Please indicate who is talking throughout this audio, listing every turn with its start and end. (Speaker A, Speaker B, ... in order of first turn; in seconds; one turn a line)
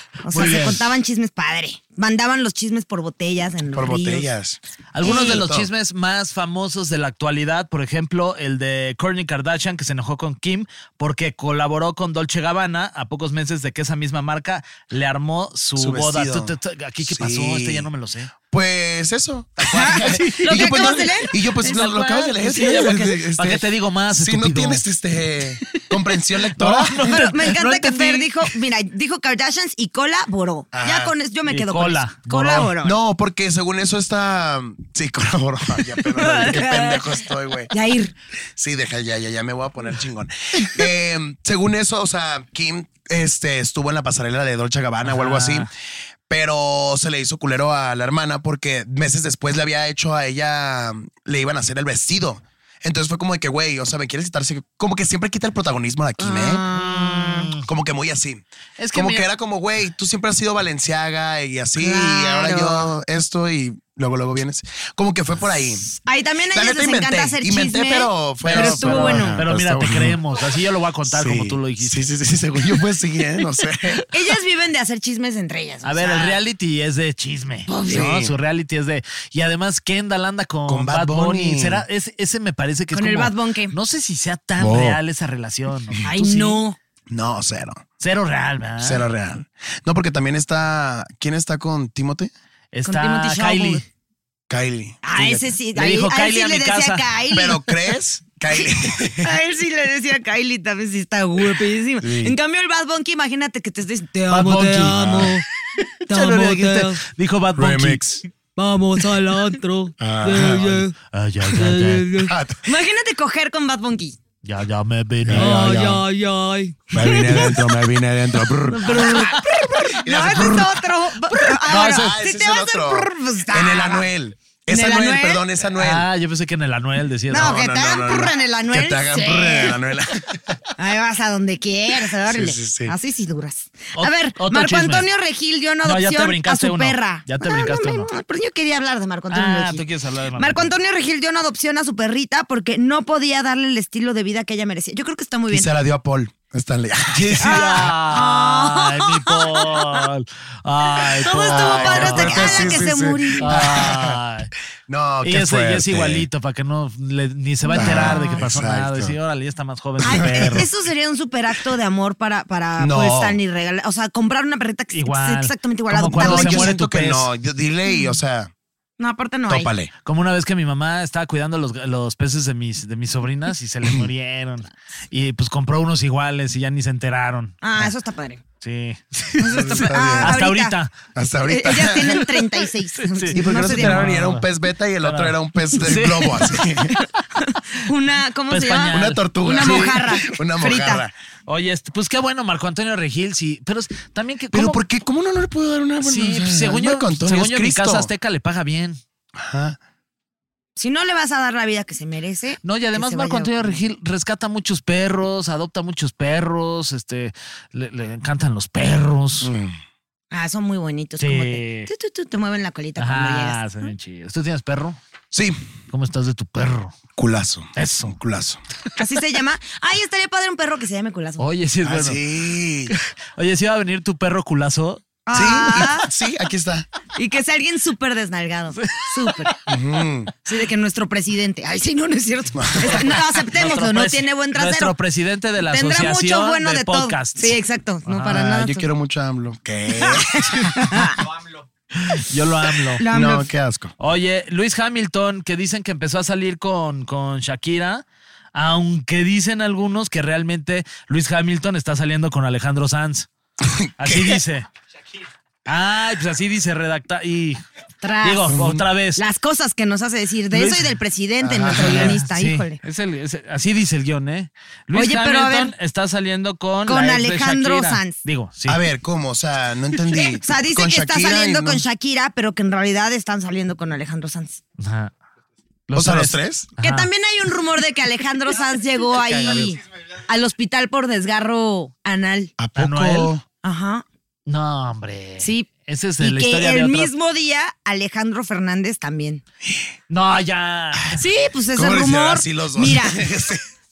Speaker A: 0.2-4.3
Speaker B: 0.3-0.8
Speaker C: 0.4-0.7
Speaker C: 3.7-5.7
Speaker B: 4.9-18.3
Speaker A: 5.0-5.5
Speaker C: 15.8-17.9
Speaker C: 18.4-27.2
Speaker A: 19.7-22.9
Speaker B: 19.9-24.8
Speaker B: 26.5-28.5
Speaker A: 27.1-33.0
Speaker C: 30.7-31.1
Speaker B: 31.5-32.7
Speaker C: 32.7-37.7
Speaker A: 36.0-38.1
Speaker C: 38.6-45.7
Speaker B: 45.0-45.7
Speaker C: 46.3-56.6
Speaker A: 56.2-57.5
Speaker B: 56.7-57.7
Speaker C: 57.6-65.9
Speaker B: 58.8-59.3
Speaker A: 61.8-62.9
Speaker A: 66.0-69.4
Speaker C: 66.5-70.2
Speaker B: 68.5-72.0
Speaker C: 71.1-74.0
Speaker A: 74.1-76.4
Speaker B: 75.8-86.6
Speaker A: 77.7-78.1
Speaker C: 77.9-78.3
Speaker C: 80.7-81.8
Speaker A: 82.9-83.8
Speaker C: 84.6-85.0
Speaker A: 86.0-86.8
Speaker C: 87.1-87.8
Speaker B: 88.0-89.1
Speaker C: 88.8-92.3
Speaker B: 92.7-93.8
Speaker A: 92.8-93.8
Speaker C: 94.5-95.5
Speaker A: 95.0-97.6
Speaker B: 95.7-97.1
Speaker C: 97.3-99.4
Speaker A: 99.2-105.5
Speaker C: 102.0-102.4
Speaker B: 104.3-108.3
Speaker C: 104.8-105.4
Speaker A: 106.1-107.0
Speaker C: 107.6-108.2
Speaker A: 108.6-110.9
Speaker B: 109.0-109.6
Speaker C: 110.0-110.8
Speaker B: 110.3-112.3
Speaker A: 111.5-114.2
Speaker C: 112.2-112.7
Speaker B: 114.4-116.0
Speaker C: 115.2-116.0
Speaker A: 115.4-117.7
Speaker C: 116.9-120.9
Speaker A: 118.7-124.1
Speaker C: 121.4-126.1
Speaker B: 121.7-122.1
Speaker A: 124.7-125.4
Speaker B: 125.8-127.6
Speaker A: 127.3-129.8
Speaker C: 127.3-130.6
Speaker A: 130.8-139.8
Speaker C: 132.2-133.0
Speaker B: 133.9-135.1
Speaker B: 135.8-138.1
Speaker B: 139.3-140.7
Speaker A: 140.4-145.7
Speaker C: 145.5-147.8
Speaker B: 147.1-152.8
Speaker A: 147.4-150.0
Speaker A: 151.0-153.8
Speaker C: 151.5-154.2
Speaker B: 153.4-154.5
Speaker C: 154.9-156.3
Speaker B: 155.2-160.7
Speaker A: 157.6-158.4
Speaker C: 157.8-159.2
Speaker C: 160.0-160.7
Speaker A: 160.0-166.7
Speaker C: 162.8-163.4
Speaker B: 164.9-167.3
Speaker C: 166.2-168.5
Speaker A: 167.9-168.2
Speaker A: 169.0-169.7
Speaker C: 169.5-169.9
Speaker B: 170.1-177.6
Speaker A: 177.6-178.4
Speaker B: 178.6-180.9
Speaker A: 179.4-180.8
Speaker C: 179.5-180.4
Speaker C: 181.2-182.2
Speaker A: 181.4-184.1
Speaker B: 182.1-182.4
Speaker B: 183.0-184.5
Speaker C: 183.3-187.0
Speaker B: 185.0-187.0
Speaker A: 187.8-191.1
Speaker B: 188.5-190.0
Speaker C: 188.9-191.1
Speaker B: 191.5-194.8
Speaker C: 194.5-198.1
Speaker B: 196.0-199.0
Speaker C: 199.4-199.8
Speaker A: 200.8-203.9
Speaker B: 202.6-209.5
Speaker C: 209.4-209.8
Speaker A: 210.3-213.9
Speaker B: 211.2-211.9
Speaker B: 213.0-215.0
Speaker C: 215.3-215.6
Speaker B: 215.9-216.9
Speaker C: 217.2-218.6
Speaker B: 217.8-218.2
Speaker A: 219.0-221.4
Speaker B: 221.4-222.2
Speaker C: 221.8-222.9
Speaker B: 222.9-225.0
Speaker A: 225.3-226.1
Speaker C: 225.3-226.9
Speaker A: 227.2-229.6
Speaker B: 228.8-229.5
Speaker C: 229.7-230.3
Speaker A: 230.4-235.0
Speaker C: 232.6-233.1
Speaker B: 232.8-238.5
Speaker A: 235.7-238.9
Speaker C: 238.2-240.7
Speaker A: 240.0-241.2
Speaker B: 242.1-243.0
Speaker A: 243.0-243.5
Speaker C: 243.1-243.9
Speaker B: 244.0-248.0
Speaker B: 248.6-253.3
Speaker C: 253.6-254.4
Speaker B: 254.0-254.7
Speaker B: 255.7-257.6
Speaker A: 258.0-258.6
Speaker B: 258.2-259.2
Speaker C: 258.5-258.8
Speaker A: 259.2-262.8
Speaker B: 260.5-260.9
Speaker C: 261.4-262.2
Speaker B: 261.8-268.8
Speaker A: 264.9-265.7
Speaker A: 266.9-268.2
Speaker C: 268.7-271.8
Speaker A: 270.1-274.6
Speaker B: 274.8-275.1
Speaker B: 275.9-277.1
Speaker C: 275.9-276.7
Speaker A: 276.8-282.5
Speaker B: 279.4-279.7
Speaker C: 282.6-283.4
Speaker B: 282.8-283.3
Speaker A: 283.6-284.0
Speaker B: 284.5-287.1
Speaker A: 285.4-289.4
Speaker B: 290.1-291.2
Speaker A: 291.2-293.3
Speaker C: 291.7-293.6